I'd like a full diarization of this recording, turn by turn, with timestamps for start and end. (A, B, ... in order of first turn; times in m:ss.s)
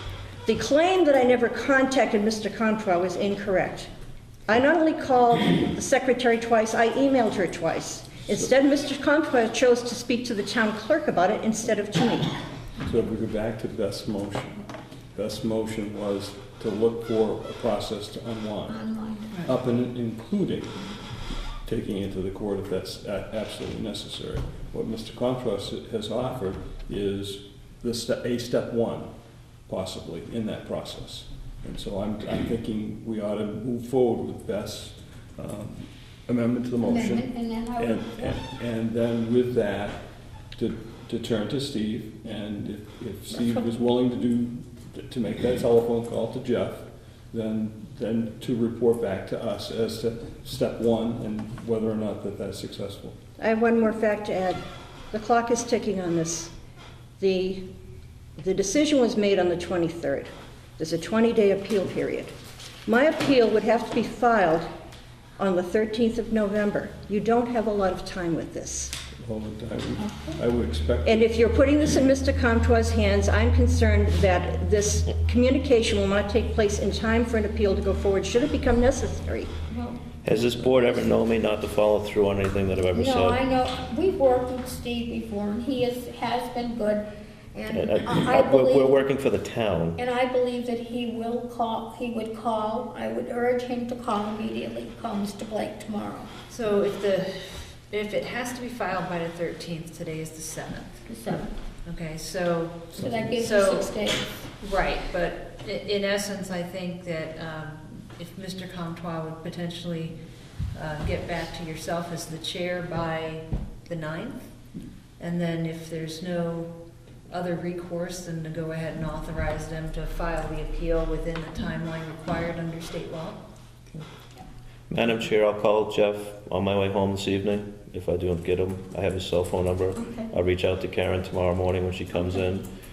0:00.4-0:03.9 A
0:04.5-0:12.3 A
0:12.8-0:18.8 B
0:18.7-0:19.3 C
0:19.4-0:20.8 B
0:21.6-0:29.1 B
0:29.7-0:40.0 B
0:36.8-0:38.4 C
0:40.6-0:53.2 B
0:43.3-0:43.6 C
0:53.4-0:54.6 A
0:55.1-0:56.5 A
0:57.2-0:57.6 A
0:58.4-1:02.3 A
1:02.8-1:04.7 A
1:05.4-1:08.9 A
1:09.2-1:11.7 B
1:10.0-1:10.4 C
1:11.0-1:19.5 A
1:19.7-1:20.0 C
1:20.2-1:23.4 D
1:22.9-1:29.0 C
1:27.7-1:30.0 D
1:30.0-1:36.3 C
1:36.5-1:41.0 E
1:41.1-1:41.5 C
1:41.8-1:44.0 E
1:42.9-1:44.5 C
1:44.6-1:50.1 E
1:50.7-1:54.5 E
1:55.2-1:56.7 E
1:57.3-2:03.4 E
2:04.9-2:12.7 D
2:10.0-2:10.3 C